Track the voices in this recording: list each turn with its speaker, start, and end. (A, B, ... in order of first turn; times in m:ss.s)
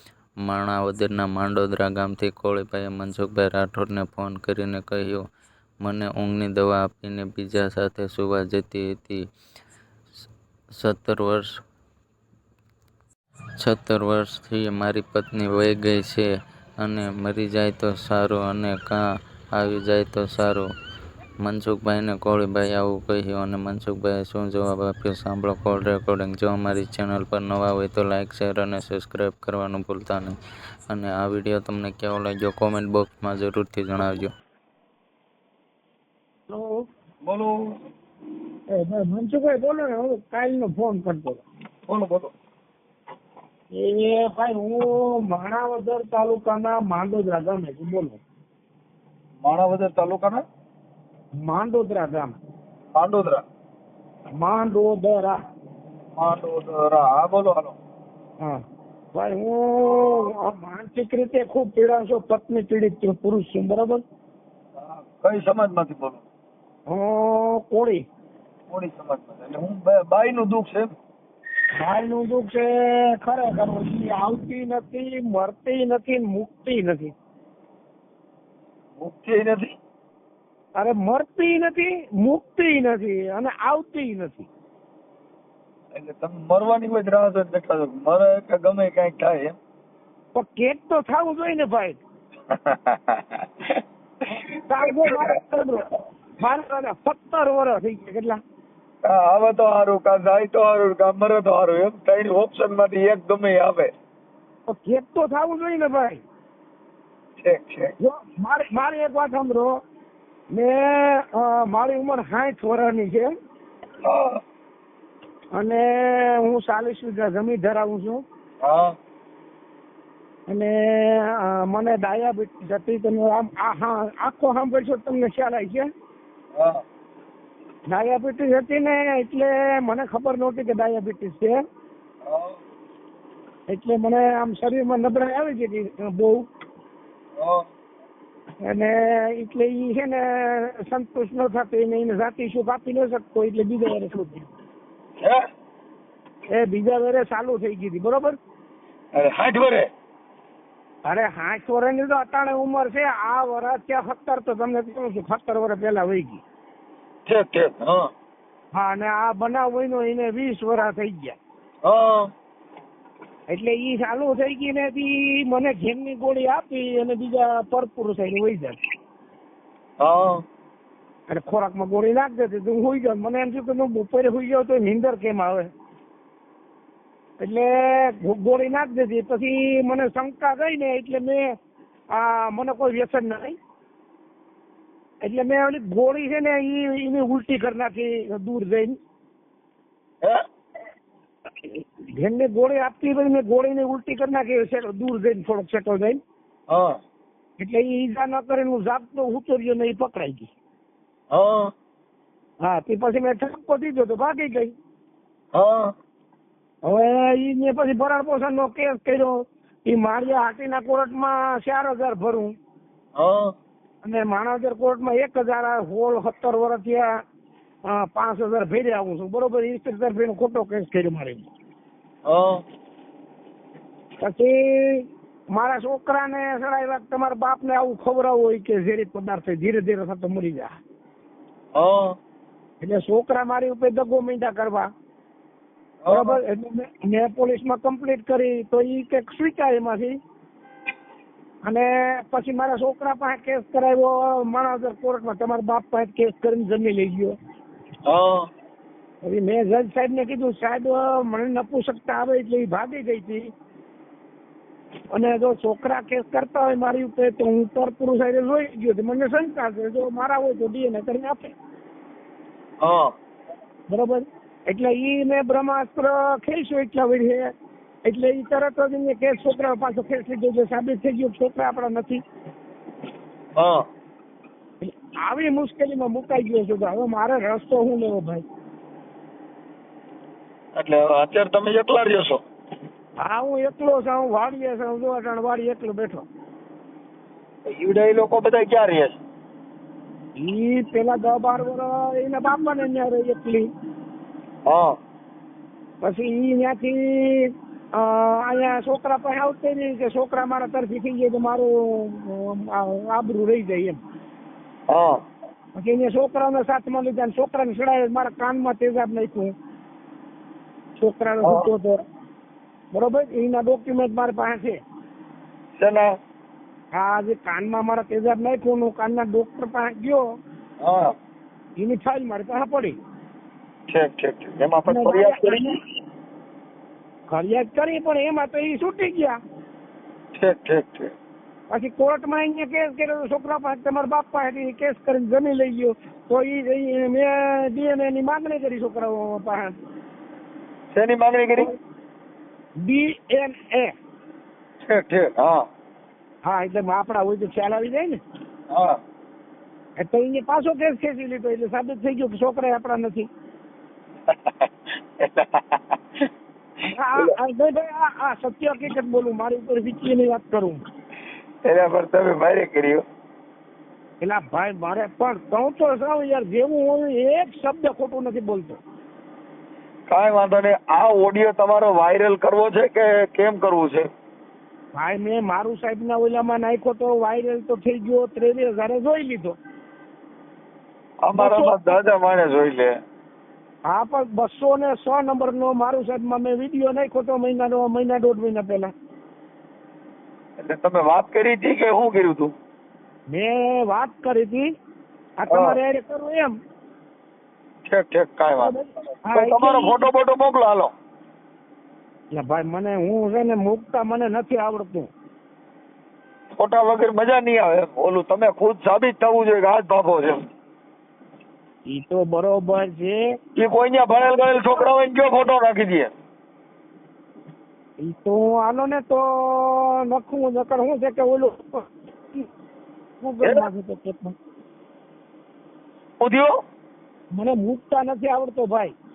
0:00.4-0:05.2 A
0:05.8-0:09.2 A
0:10.8-0:11.5 A
0:13.6-0:16.3 A
0:16.8-0:19.0 A
0:19.6-0:20.7 A
0:21.4-0:30.4 A
0:30.9-0:34.3 A
0:36.5-0:36.8 B
0:37.2-0:37.7 C
0:38.7-0:41.4 B
0:41.9-0:42.3 C
0:43.7-0:48.2 B
0:49.4-0:50.4 C
0:51.4-0:52.4 B
0:53.0-0:53.4 C
0:54.4-0:55.4 B
0:56.2-0:57.8 C
0:59.1-1:04.0 B
1:04.8-1:06.2 C
1:06.9-1:08.0 B
1:08.7-1:10.9 C
1:11.8-1:17.1 B
1:19.0-1:19.7 C
1:20.8-1:24.5 B
1:25.9-1:29.6 C
1:30.3-1:32.0 B
1:32.5-1:33.4 C
1:34.7-1:38.4 B
1:39.0-1:43.9 C
1:44.7-1:46.2 B
1:47.4-1:47.9 C
1:48.0-1:49.8 B
1:50.5-1:53.3 B
1:54.0-1:54.4 C
1:55.6-1:58.2 B
1:58.6-1:59.0 C
2:00.5-2:05.9 B
2:06.6-2:06.8 C
2:07.9-2:11.6 B
2:12.3-2:12.6 C
2:13.7-2:16.5 B
2:17.4-2:17.7 C
2:18.6-2:24.5 B
2:26.5-2:28.4 B
2:29.1-2:29.9 C
2:31.0-2:36.4 B
2:37.3-2:38.1 C
2:38.8-2:41.4 B
2:41.8-2:42.3 C
2:43.5-2:48.8 B
2:50.0-2:50.4 C
2:51.3-2:55.7 B
2:57.4-3:01.5 B
3:02.1-3:03.6 B
3:05.2-3:09.0 B
3:11.6-3:16.2 B
3:16.7-3:17.0 C
3:17.6-3:20.5 B
3:21.3-3:21.7 C
3:22.6-3:24.8 B
3:25.5-3:25.9 C
3:26.8-3:32.5 B
3:33.2-3:33.5 C
3:34.0-3:37.1 B
3:37.9-3:41.5 B
3:42.3-3:42.6 C
3:44.2-3:50.8 B
3:51.8-3:52.2 C
3:52.8-3:54.9 B
3:56.0-3:56.4 C
3:56.1-4:00.2 B
4:01.6-4:07.4 B
4:08.1-4:08.5 C
4:09.2-4:13.5 B
4:15.1-4:21.6 B
4:22.8-4:23.1 C
4:23.9-4:27.5 B
4:28.1-4:32.2 B
4:33.6-4:33.8 C
4:34.8-4:38.4 B
4:40.8-4:42.4 C
4:43.2-4:46.3 B
4:47.7-4:49.2 C
4:50.4-4:53.7 B
4:54.7-4:55.0 C
4:56.0-5:04.0 B
5:04.9-5:05.2 C
5:05.8-5:09.5 B
5:11.0-5:12.0 B
5:11.4-5:11.7 C
5:12.9-5:14.8 B
5:15.8-5:16.1 C
5:16.9-5:20.2 B
5:20.8-5:21.1 C
5:21.8-5:23.0 B
5:23.9-5:25.7 C
5:24.9-5:25.8 B
5:27.3-5:29.4 B
5:30.4-5:31.1 C
5:31.7-5:39.7 B
5:40.9-5:41.7 C
5:42.8-5:44.0 B
5:44.8-5:45.6 C
5:46.5-5:48.2 B
5:48.7-5:49.0 C
5:50.0-5:53.3 B
5:54.3-5:54.7 C
5:55.2-5:55.8 C
5:56.8-6:00.8 B
6:01.6-6:03.0 C
6:04.2-6:08.8 B
6:10.1-6:14.1 C
6:14.9-6:19.6 B
6:21.2-6:23.0 C
6:21.3-6:22.1 B
6:23.9-6:28.9 B
6:30.6-6:32.5 C
6:33.3-6:34.7 B
6:35.4-6:36.6 B
6:35.5-6:35.8 C
6:37.9-6:38.7 C
6:38.6-6:40.1 B
6:39.3-6:40.9 C
6:42.3-6:45.1 B
6:46.6-6:50.5 C
6:51.9-6:53.2 B
6:53.6-6:56.1 C
6:54.5-6:54.9 B
6:58.0-7:02.5 B
7:03.2-7:04.4 B
7:06.2-7:06.5 C
7:07.3-7:08.9 B